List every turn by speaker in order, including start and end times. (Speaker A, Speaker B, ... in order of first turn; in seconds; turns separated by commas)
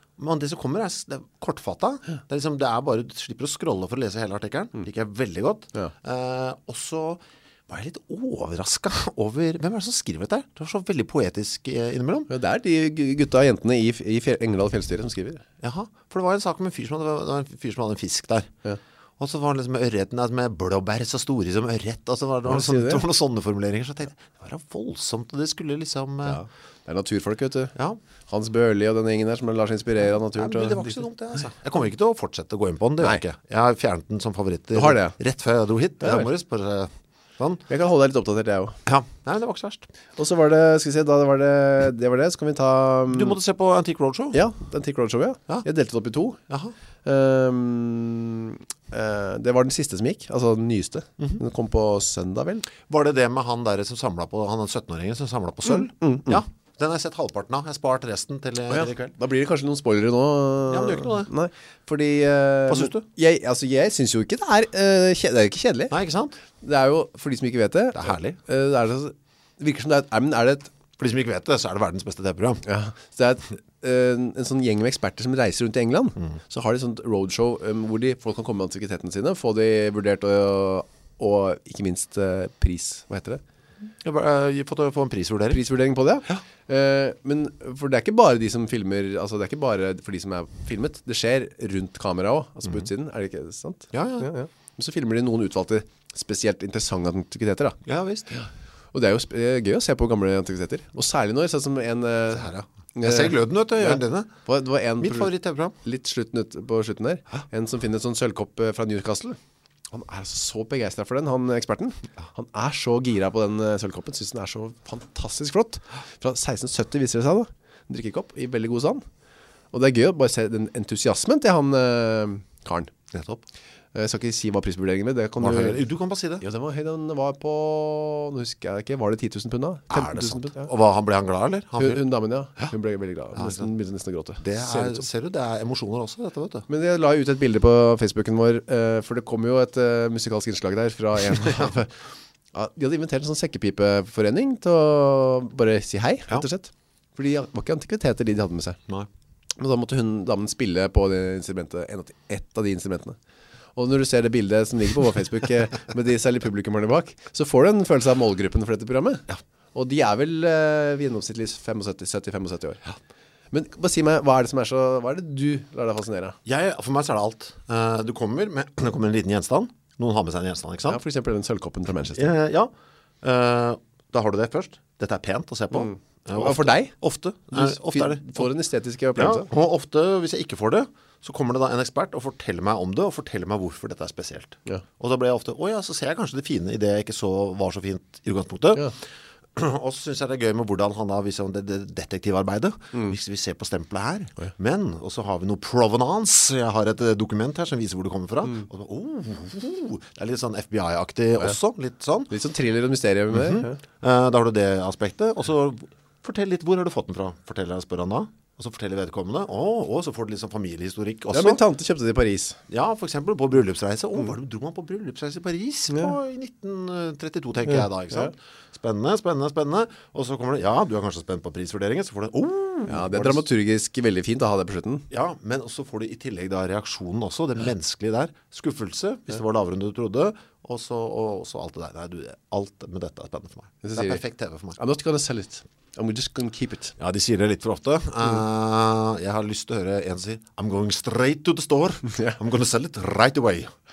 Speaker A: 0.2-12.3, Speaker B: 12.3-15.4, Speaker A: 15.6-18.5, Speaker A: 19.2-26.4, Speaker B: 22.5-23.0, Speaker B: 26.2-27.8, Speaker B: 28.3-31.0, Speaker A: 30.3-37.6, Speaker B: 34.7-35.2, Speaker B: 36.0-36.3, Speaker B: 37.7-38.8, Speaker A: 38.9-39.9, Speaker B: 40.2-43.4, Speaker A: 43.1-44.4, Speaker B: 44.3-46.4, Speaker A: 46.5-46.7, Speaker B: 47.0-52.6, Speaker A: 52.9-59.1, Speaker B: 55.7-56.4, Speaker B: 58.7-66.0, Speaker A: 60.7-61.3, Speaker A: 62.7-63.0, Speaker A: 65.9-66.3, Speaker B: 66.5-70.7, Speaker A: 67.9-68.4, Speaker A: 71.0-72.6, Speaker B: 72.6-83.4, Speaker A: 84.0-85.6, Speaker B: 85.5-97.8, Speaker A: 93.9-94.3, Speaker A: 97.8-98.3, Speaker B: 98.3-109.4, Speaker A: 102.3-104.3, Speaker A: 105.0-105.8, Speaker B: 109.9-119.0, Speaker B: 119.7-122.9, Speaker A: 123.1-123.4, Speaker B: 123.9-125.8, Speaker A: 125.4-126.4, Speaker B: 126.4-130.7, Speaker A: 129.9-132.0, Speaker B: 131.8-135.0, Speaker A: 133.3-133.7, Speaker A: 134.4-136.7, Speaker B: 136.7-142.0, Speaker B: 142.5-148.8, Speaker B: 149.6-153.2, Speaker B: 153.8-162.8, Speaker B: 163.5-166.4, Speaker A: 166.4-171.0, Speaker B: 170.8-172.3, Speaker A: 172.1-172.7, Speaker A: 173.2-178.5, Speaker B: 175.7-176.9, Speaker B: 177.5-179.5, Speaker A: 179.2-189.0, Speaker A: 189.5-202.3, Speaker B: 202.3-203.8, Speaker A: 203.3-211.6, Speaker B: 211.3-212.6, Speaker A: 212.7-223.4, Speaker B: 222.9-225.1, Speaker A: 225.1-234.8, Speaker B: 233.8-234.2, Speaker B: 234.8-236.9, Speaker A: 237.0-243.7, Speaker B: 242.1-242.4